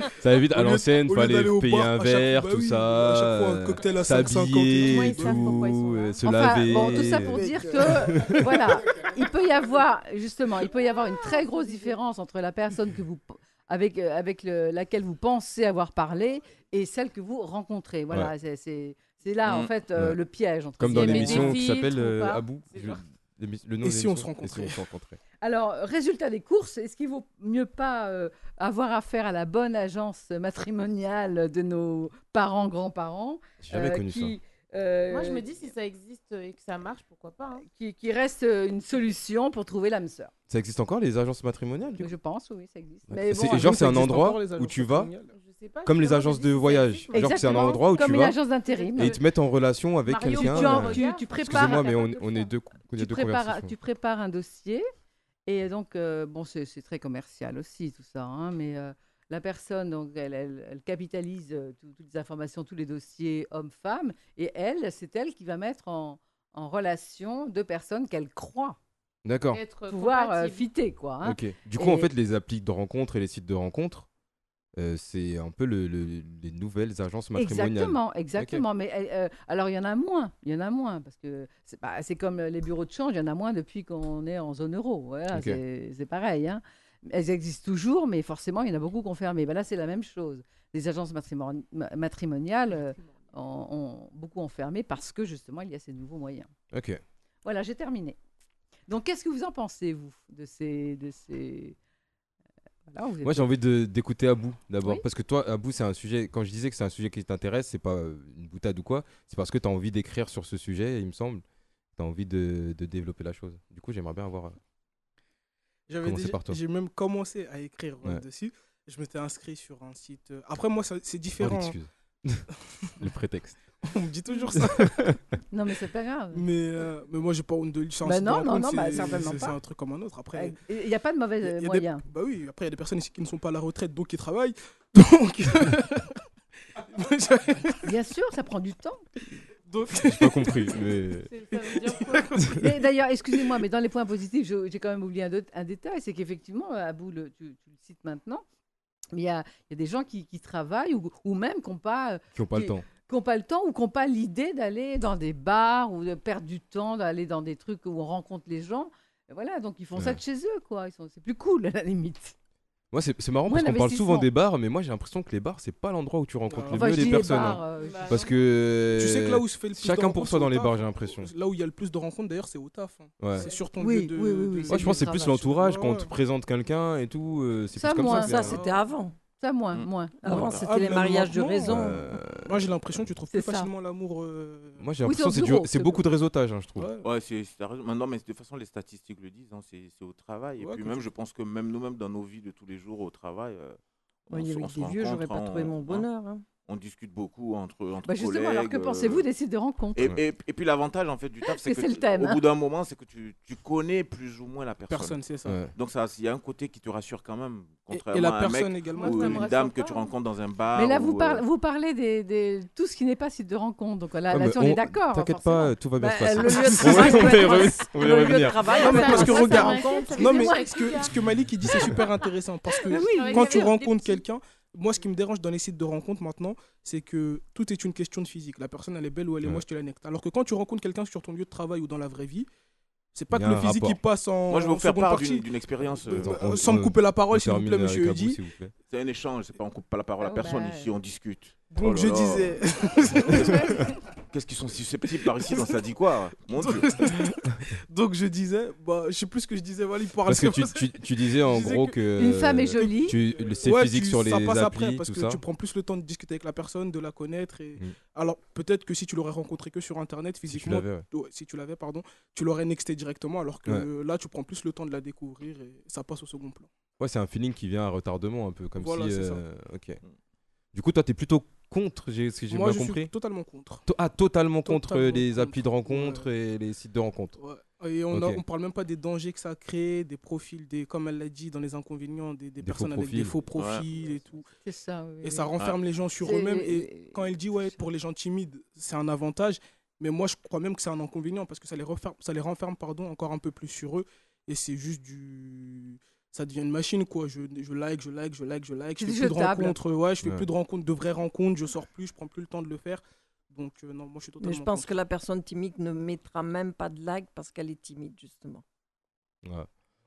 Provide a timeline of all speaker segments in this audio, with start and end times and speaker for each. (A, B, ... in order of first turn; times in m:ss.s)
0:00.2-0:08.6 A
0:00.4-0:05.7 B
0:04.8-0:06.5 C
0:06.2-0:21.6 D
0:06.7-0:08.6 B
0:19.4-0:20.2 A
0:20.8-0:25.2 A
0:20.9-0:23.0 C
0:23.8-0:24.8 B
0:25.4-0:35.5 D
0:33.6-0:34.3 A
0:35.1-0:37.6 C
0:37.6-0:40.3 D
0:40.5-0:42.1 A
0:42.0-0:43.8 D
0:43.1-0:45.1 A
0:43.3-0:45.3 B
0:45.3-0:49.2 C
0:45.8-0:48.4 A
0:47.1-0:49.2 D
0:48.9-0:53.7 A
0:50.0-0:52.5 C
0:50.3-0:54.8 D
0:55.4-1:08.8 D
1:09.2-1:09.6 A
1:09.5-1:10.7 C
1:09.9-1:12.1 D
1:11.2-1:14.1 A
1:14.8-1:18.6 A
1:17.3-1:36.5 D
1:25.3-1:25.6 A
1:32.7-1:33.4 C
1:36.7-1:37.0 A
1:37.4-1:38.2 D
1:38.9-1:41.8 D
1:42.9-1:43.5 D
1:43.2-1:51.4 A
1:52.0-1:54.6 A
1:55.9-2:01.8 B
1:56.0-1:56.6 A
2:01.4-2:02.4 A
2:03.0-2:03.6 A
2:03.8-2:05.2 B
2:04.5-2:05.2 A
2:05.5-2:06.4 D
2:06.3-2:10.6 B
2:08.0-2:09.6 D
2:10.3-2:12.0 D
2:11.4-2:16.2 B
2:16.8-2:17.8 B
2:17.8-2:19.0 D
2:19.6-2:20.7 B
2:20.0-2:21.3 A
2:21.3-2:22.4 C
2:21.6-2:22.7 B
2:22.5-2:28.4 D
2:29.1-2:42.3 D
2:32.3-2:32.8 A
2:42.9-2:51.3 A
2:43.5-2:44.3 D
2:46.5-2:47.4 B
2:46.7-2:48.3 D
2:47.6-2:48.4 C
2:48.9-2:56.1 B
2:53.2-2:53.5 A
2:53.8-2:54.7 E
2:54.7-2:58.6 A
2:54.7-2:55.4 D
2:57.7-2:58.5 D
2:58.0-2:59.1 E
2:58.3-2:58.8 B
2:59.4-3:00.4 D
3:00.2-3:02.0 E
3:00.3-3:04.8 B
3:00.4-3:00.7 F
3:01.6-3:02.6 A
3:03.3-3:03.7 D
3:04.8-3:06.9 A
3:05.0-3:06.0 D
3:06.8-3:07.1 B
3:07.0-3:16.1 F
3:10.6-3:11.0 B
3:14.3-3:16.5 E
3:16.6-3:19.2 F
3:18.0-3:20.1 D
3:19.9-3:31.4 F
3:21.4-3:22.4 D
3:24.9-3:25.6 B
3:25.4-3:25.7 A
3:27.9-3:29.5 B
3:28.9-3:30.1 C
3:30.7-3:35.8 D
3:34.3-3:39.3 A
3:36.0-3:40.2 E
3:36.3-3:37.8 D
3:38.6-3:41.2 C
3:38.8-3:52.5 B
3:39.1-3:40.7 D
3:41.6-3:42.0 A
3:41.7-3:44.2 C
3:42.9-3:43.7 D
3:43.0-3:43.6 E
3:53.1-3:55.5 B
3:53.3-3:54.0 A
3:54.5-3:56.4 F
3:56.1-3:58.7 A
3:56.3-3:58.4 B
3:58.9-4:03.7 F
4:00.2-4:00.9 D
4:01.7-4:03.8 B
4:04.3-4:07.2 F
4:05.2-4:05.7 B
4:06.6-4:12.0 B
4:10.2-4:15.4 A
4:12.1-4:13.2 D
4:12.8-4:26.7 B
4:20.4-4:21.0 A
4:27.0-4:30.0 A
4:28.8-4:29.4 B
4:30.7-4:33.1 A
4:32.5-4:33.8 B
4:33.8-4:37.4 A
4:34.6-4:36.3 B
4:37.4-4:44.5 B
4:38.1-4:38.4 A
4:42.6-4:43.4 A
4:43.5-4:43.9 F
4:44.6-4:45.5 D
4:45.2-5:05.0 B
4:46.2-4:47.4 D
4:59.0-4:59.8 D
5:00.2-5:00.5 A
5:04.4-5:08.6 E
5:09.4-5:09.7 A